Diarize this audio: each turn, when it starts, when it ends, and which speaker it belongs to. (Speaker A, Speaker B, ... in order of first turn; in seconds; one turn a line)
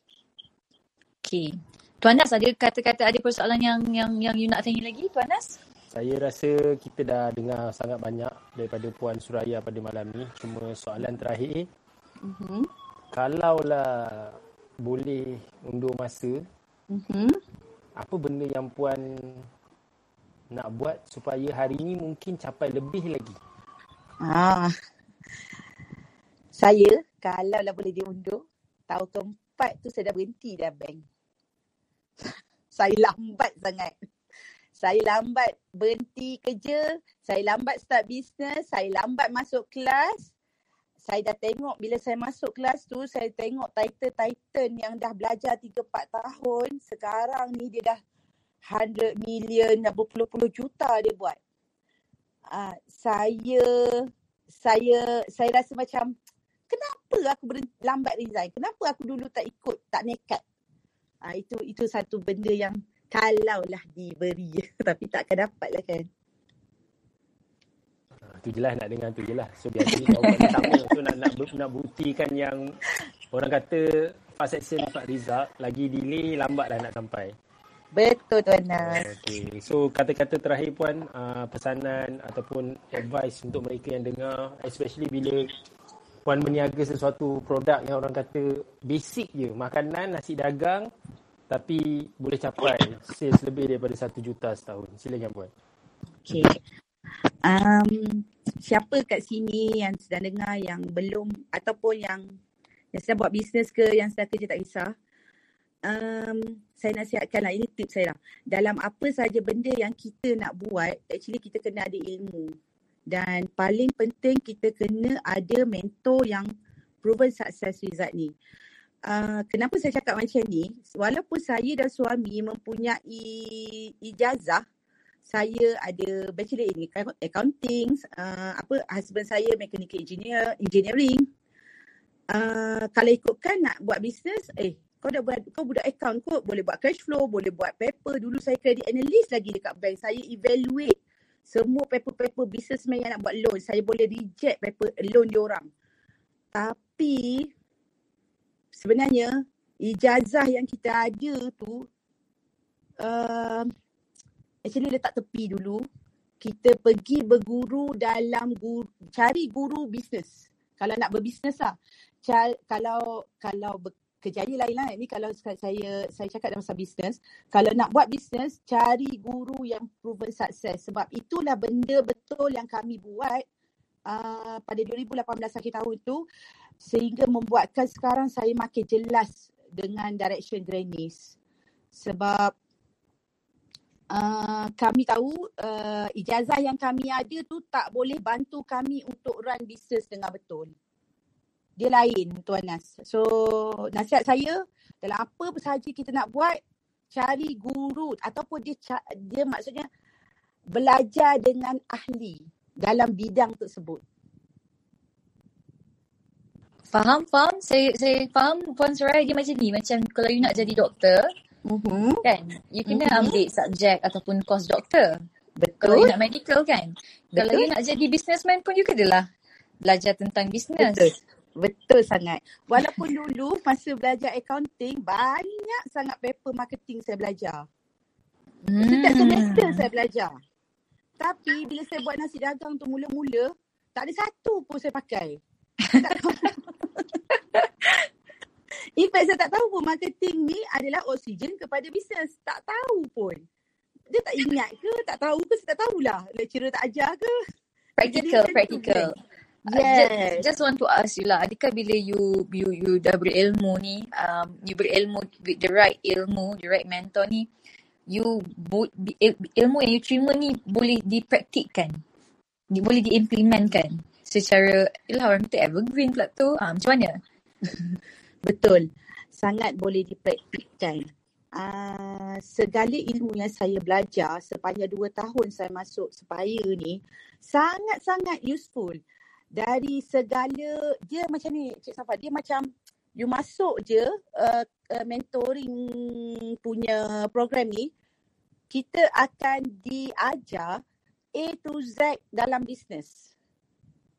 Speaker A: 1.2-5.5
Speaker B: 5.9-11.7
Speaker C: 12.2-12.7
Speaker B: 13.1-16.4
Speaker C: 16.9-17.4
Speaker B: 18.0-19.4
Speaker B: 20.5-23.4
Speaker C: 24.2-24.7
Speaker C: 26.5-31.0
Speaker C: 32.7-33.9
Speaker C: 34.8-40.3
Speaker C: 41.0-48.0
Speaker C: 48.6-51.4
Speaker C: 52.5-56.1
Speaker C: 56.7-60.4
Speaker C: 61.2-66.1
Speaker B: 68.3-72.6
Speaker C: 70.1-70.7
Speaker B: 73.3-77.3
Speaker C: 77.9-79.0
Speaker B: 78.8-85.5
Speaker B: 86.2-90.9
Speaker B: 91.5-95.5
Speaker C: 96.2-96.6
Speaker C: 97.4-102.2
Speaker C: 102.9-104.9
Speaker C: 105.8-112.5
Speaker C: 113.1-116.5
Speaker C: 117.0-118.3
Speaker C: 119.0-124.6
Speaker C: 125.2-131.2
Speaker C: 132.3-140.9
Speaker C: 141.5-145.7
Speaker C: 146.5-147.5
Speaker C: 148.7-151.9
Speaker C: 153.0-153.7
Speaker C: 154.7-155.8
Speaker C: 156.4-173.4
Speaker C: 174.1-176.2
Speaker C: 176.8-181.3
Speaker C: 181.9-182.5
Speaker C: 184.1-190.7
Speaker C: 191.8-196.6
Speaker C: 197.1-199.8
Speaker C: 200.7-204.0
Speaker A: 206.9-211.3
Speaker C: 211.7-212.2
Speaker A: 212.2-215.2
Speaker C: 212.9-213.4
Speaker C: 215.6-216.1
Speaker A: 215.8-219.3
Speaker C: 217.3-217.7
Speaker A: 219.8-221.1
Speaker C: 220.8-227.7
Speaker A: 228.7-229.8
Speaker C: 228.8-230.3
Speaker C: 231.2-235.4
Speaker C: 236.0-237.0
Speaker C: 238.9-243.4
Speaker C: 244.1-247.3
Speaker A: 248.0-249.2
Speaker C: 248.0-249.1
Speaker C: 249.7-250.4
Speaker A: 249.7-257.5
Speaker A: 258.1-262.0
Speaker A: 262.7-267.2
Speaker C: 268.4-279.0
Speaker C: 279.5-287.9
Speaker C: 288.7-290.8
Speaker C: 291.4-293.3